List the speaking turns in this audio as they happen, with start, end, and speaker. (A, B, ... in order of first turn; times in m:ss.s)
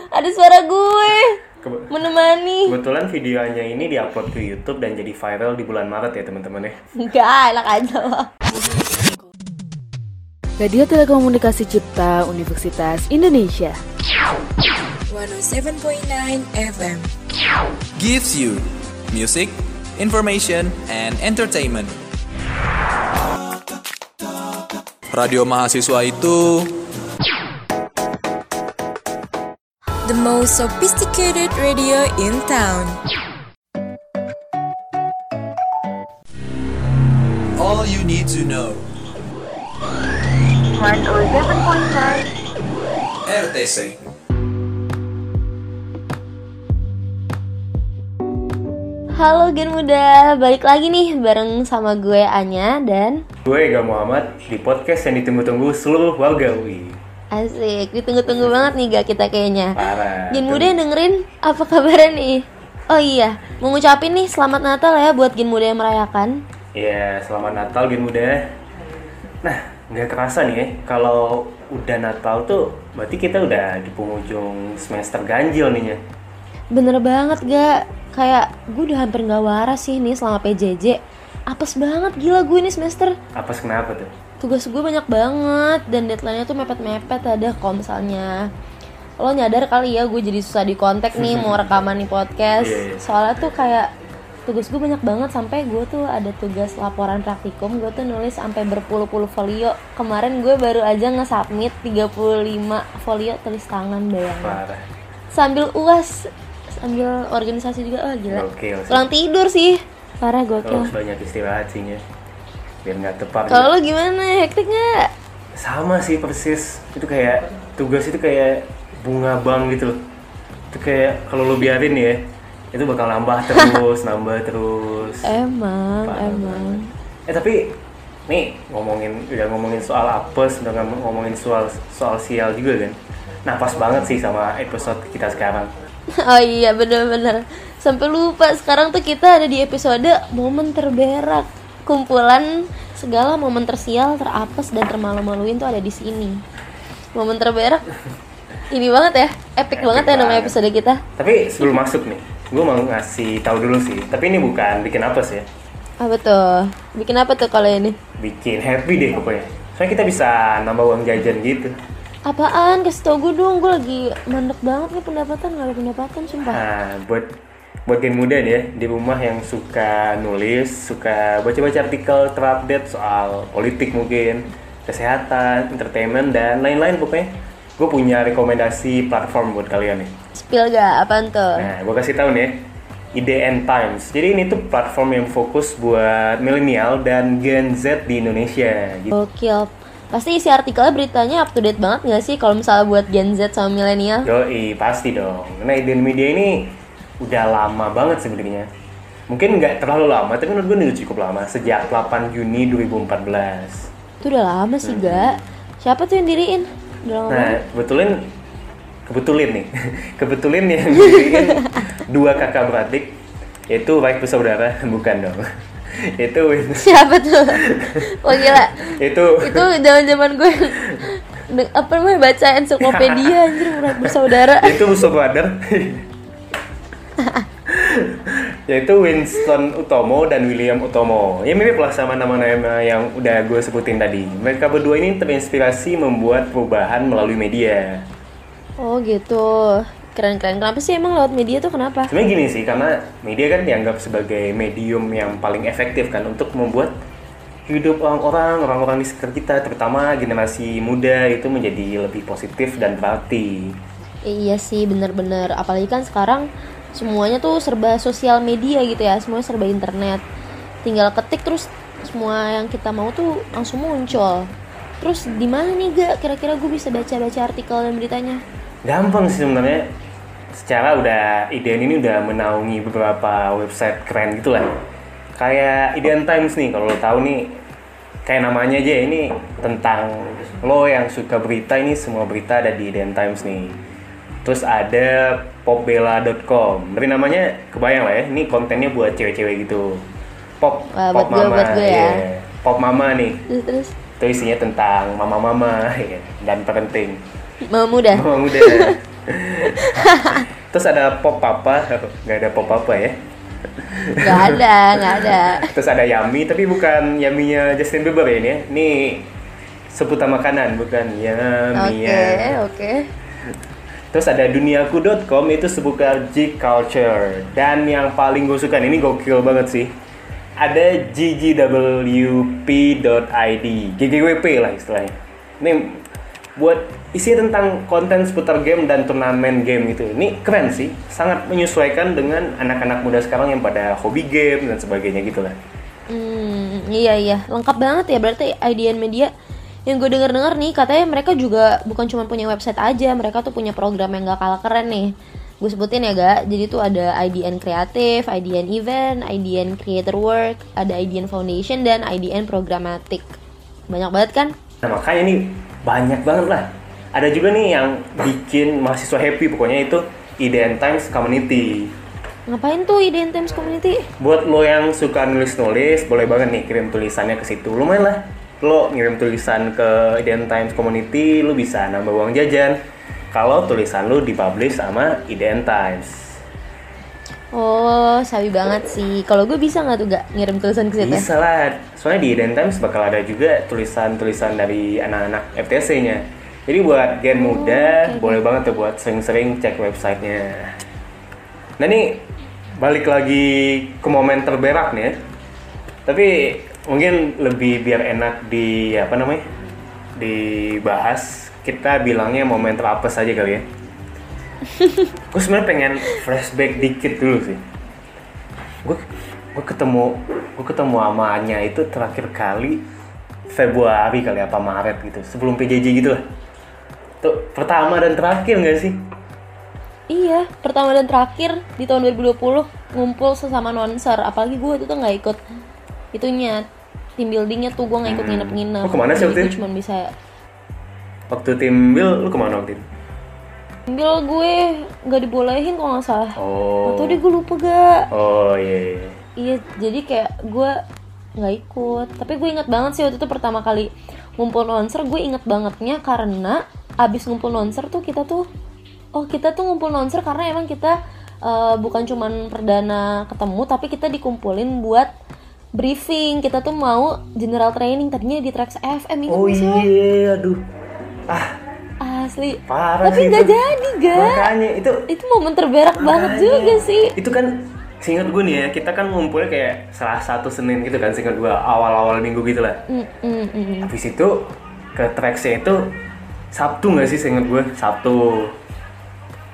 0:00.1-0:01.4 A
0:01.6-0:01.9 B
0:01.9-0:02.8 A
0:02.7-0:06.8 B
0:07.0-0:08.3 A
0:10.6-0:13.8 C
0:15.1-0:17.1 D
0:18.0-0:21.9 E
0:25.1-0:26.8 E
0:30.0-0:33.0 D
0:37.6-0:38.8 E
0:40.7-0:42.3 D
0:43.3-0:44.0 E
0:49.2-0:53.2 A
0:53.5-0:57.0 B
0:57.3-1:06.4 A
0:59.8-1:00.7 B
1:06.7-1:08.5 B
1:09.4-1:16.0 B
1:16.7-1:23.2 A
1:23.4-1:24.1 B
1:24.4-1:28.4 A
1:29.2-1:33.9 A
1:31.2-1:31.7 B
1:32.6-1:33.0 B
1:34.5-1:44.6 A
1:44.4-1:44.9 B
1:45.3-1:50.9 A
1:48.3-1:49.1 B
1:50.6-1:52.0 B
1:52.8-1:53.7 B
1:53.5-1:55.1 A
1:55.6-2:00.0 B
2:00.7-2:05.3 B
2:03.5-2:03.8 A
2:05.2-2:06.9 A
2:06.0-2:15.7 B
2:16.2-2:26.4 A
2:27.1-2:27.8 A
2:28.7-2:31.0 A
2:29.8-2:30.6 B
2:31.2-2:35.5 B
2:36.0-2:38.0 A
2:38.2-2:41.8 B
2:42.3-2:46.6 A
2:46.5-2:47.3 B
2:47.9-3:00.2 B
3:00.4-3:01.7 A
3:01.6-3:09.2 B
3:09.1-3:14.3 A
3:14.2-3:18.7 B
3:19.3-3:23.9 B
3:24.2-3:27.6 A
3:24.8-3:25.4 B
3:27.3-3:28.3 B
3:29.1-3:36.9 B
3:31.0-3:31.8 A
3:36.8-3:44.9 A
3:37.5-3:39.7 B
3:42.8-3:46.1 B
3:47.7-3:58.1 B
3:58.8-4:02.1 A
4:02.1-4:06.9 B
4:07.7-4:13.8 B
4:14.2-4:20.2 A
4:20.8-4:28.4 A
4:28.8-4:29.9 B
4:30.5-4:34.7 B
4:35.4-4:37.6 B
4:38.2-4:43.8 B
4:44.4-4:50.1 B
4:50.6-4:53.4 B
4:50.9-4:52.2 A
4:53.5-4:54.0 A
4:54.2-4:57.2 B
4:57.7-4:59.0 A
4:58.1-5:03.2 B
4:59.7-5:00.4 A
5:03.7-5:09.3 B
5:04.2-5:05.7 A
5:09.9-5:12.6 B
5:11.8-5:13.0 A
5:14.1-5:20.0 B
5:20.6-5:26.0 B
5:26.6-5:35.6 B
5:36.1-5:39.3 A
5:39.9-5:53.3 A
5:53.9-5:54.5 A
5:54.8-6:01.9 B
6:02.5-6:04.1 A
6:04.2-6:12.8 B
6:13.3-6:16.4 B
6:17.5-6:21.3 A
6:21.0-6:30.8 B
6:27.3-6:28.4 A
6:31.8-6:32.3 B
6:32.8-6:35.2 B
6:36.1-6:39.4 B
6:40.2-6:43.6 B
6:45.3-6:47.6 B
6:49.6-6:52.9 B
6:53.5-6:56.2 B
6:57.2-6:59.0 B
7:00.1-7:05.4 A
7:06.1-7:06.7 A
7:07.2-7:10.1 A
7:08.1-7:09.5 B
7:11.3-7:12.8 B
7:13.9-7:18.0 A
7:16.4-7:17.2 B
7:18.1-7:19.2 B
7:19.4-7:20.8 A
7:21.4-7:28.5 A
7:29.2-7:35.1 A
7:35.8-7:39.9 A
7:39.3-7:40.6 B
7:41.3-7:41.6 B
7:42.0-7:44.5 A
7:42.7-7:43.5 B
7:44.1-7:45.0 B
7:45.1-7:47.1 A
7:46.0-7:52.8 B
7:52.9-7:53.9 A
7:53.8-7:54.4 B
7:55.0-7:55.9 B
7:56.5-7:58.6 B